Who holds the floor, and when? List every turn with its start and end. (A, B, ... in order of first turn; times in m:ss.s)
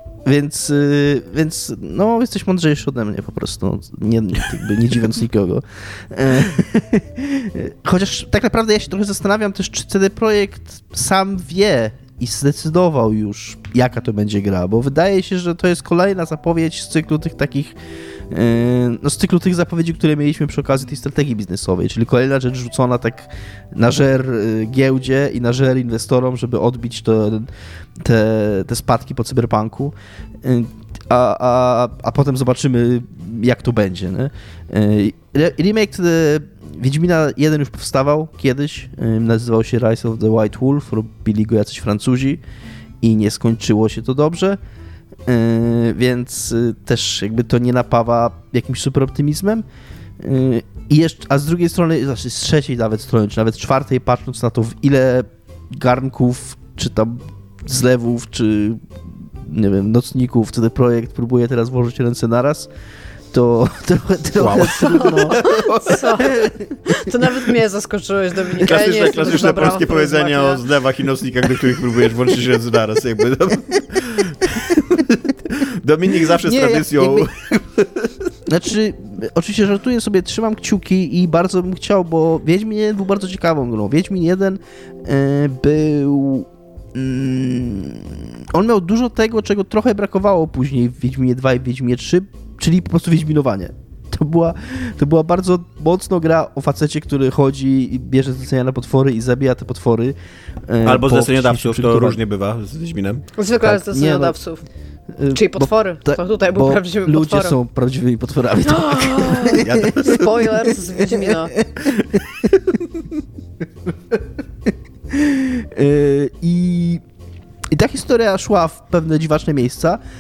0:00.2-0:17.7 A
0:18.3-0:42.4 A
0:43.0-0:44.6 A
0:45.2-0:49.6 A
0:50.2-0:58.8 A
0:59.4-1:02.7 A
1:03.3-1:05.6 A
1:04.4-1:06.3 B
1:04.8-1:10.6 C
1:08.6-1:18.3 B
1:16.4-1:17.3 A
1:18.5-1:40.1 A
1:40.7-1:42.2 A
1:40.8-1:43.3 B
1:43.4-1:44.6 C
1:43.6-1:44.4 A
1:45.1-1:50.2 A
1:45.3-1:47.5 C
1:48.6-1:51.5 C
1:49.5-1:50.3 B
1:50.7-1:52.2 A
1:54.1-1:57.0 A
1:57.7-2:00.0 A